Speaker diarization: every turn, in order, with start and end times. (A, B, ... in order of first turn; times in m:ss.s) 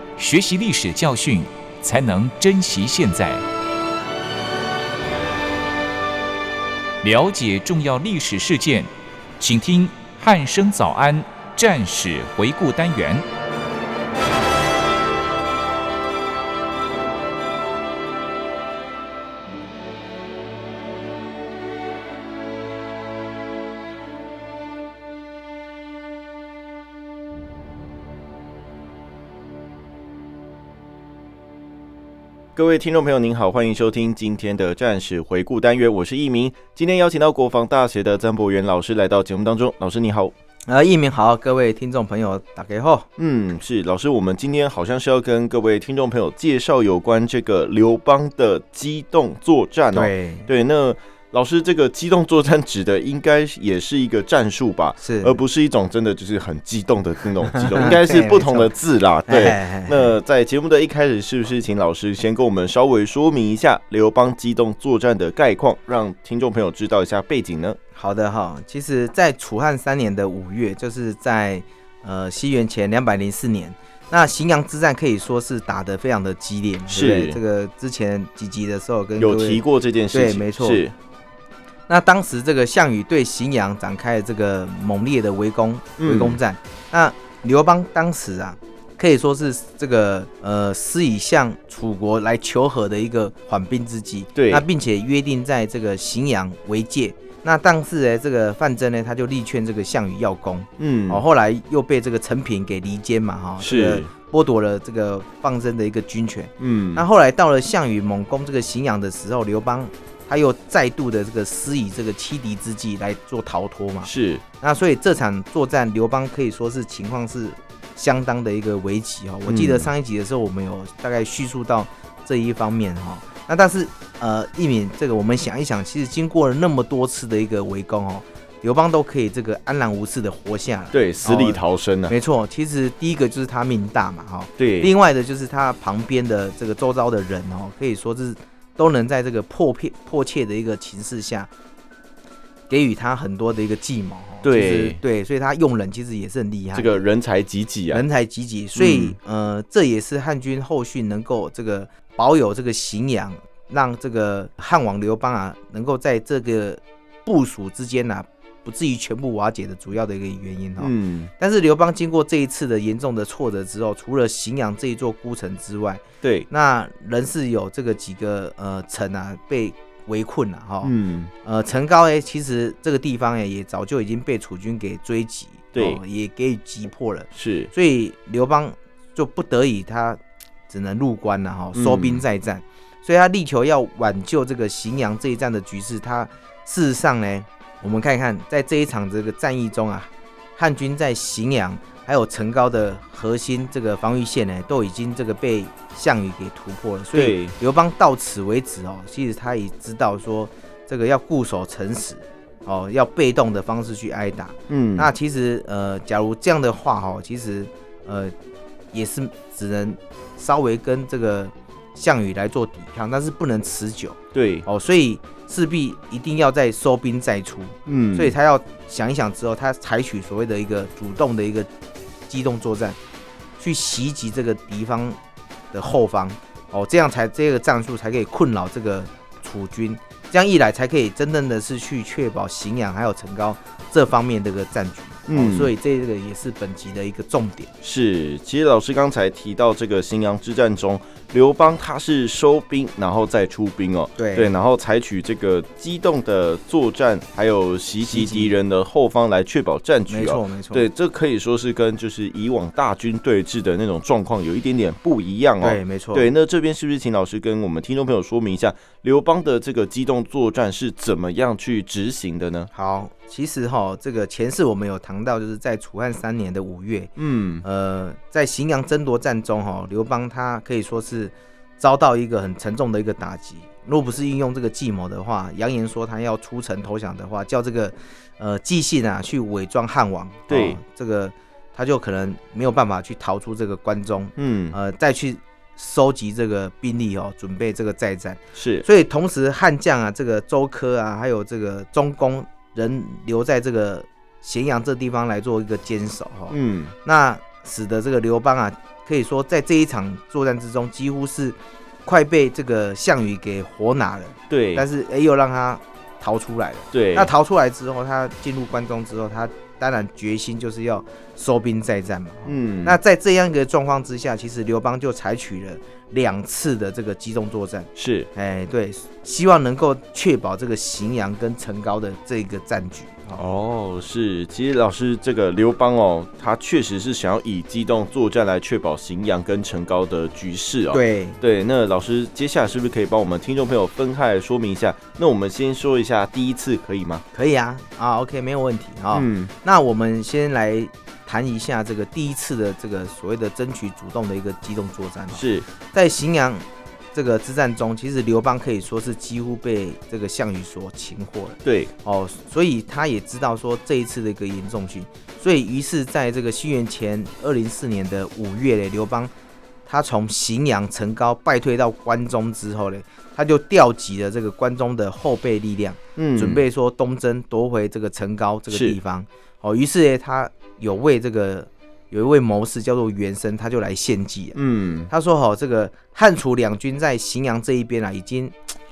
0:00.2-0:03.4 A
0:07.0-0:13.2 A
0:32.6-0:40.3 B
0:40.7-0:43.1 C
0:43.2-1:07.8 B
0:49.9-0:50.5 C
0:55.0-0:55.4 C
0:57.5-0:58.7 C
0:59.3-1:00.1 C
1:08.0-1:20.8 C
1:16.9-1:17.4 B
1:19.2-1:20.9 B
1:21.9-2:21.5 C
1:26.0-1:26.4 B
1:34.4-1:34.6 B
1:40.8-1:41.2 B
1:43.6-1:44.1 B
1:46.6-1:47.0 B
1:54.0-1:54.4 B
1:59.5-1:59.9 B
2:10.9-2:12.1 B
2:14.6-2:14.9 B
2:22.7-2:27.0 C
2:24.4-2:25.0 B
2:26.8-2:28.0 B
2:27.9-3:28.3 C
2:28.8-2:29.2 B
2:40.8-2:41.3 B
2:46.2-2:46.5 B
2:50.8-2:51.3 B
2:55.7-2:56.0 B
2:57.3-2:57.7 B
3:01.8-3:02.2 B
3:17.1-3:17.6 B
3:24.7-3:25.1 B
3:28.9-3:41.7 C
3:34.3-3:34.7 B
3:37.9-3:38.4 B
3:42.3-3:43.0 C
3:43.6-3:45.2 C
3:45.7-3:57.7 C
3:55.3-3:55.7 B
3:57.8-4:22.7 B
4:04.2-4:04.5 C
4:08.0-4:08.5 C
4:10.1-4:10.9 C
4:15.6-4:16.3 C
4:22.7-4:27.1 C
4:27.2-4:27.6 B
4:27.6-5:23.4 C
4:40.5-4:40.8 B
4:44.4-4:44.8 B
4:48.6-4:48.8 B
4:56.5-4:56.9 B
5:04.5-5:04.8 B
5:06.9-5:07.3 B
5:12.5-5:13.0 B
5:18.0-5:18.3 B
5:23.4-5:37.2 B
5:30.9-5:31.4 C
5:37.3-5:59.3 C
5:39.1-5:39.5 B
5:45.4-5:45.7 B
5:51.6-5:51.9 B
5:59.9-6:14.6 C
6:06.2-6:06.6 B
6:08.7-6:09.0 B
6:14.6-6:15.1 B
6:15.1-6:18.6 C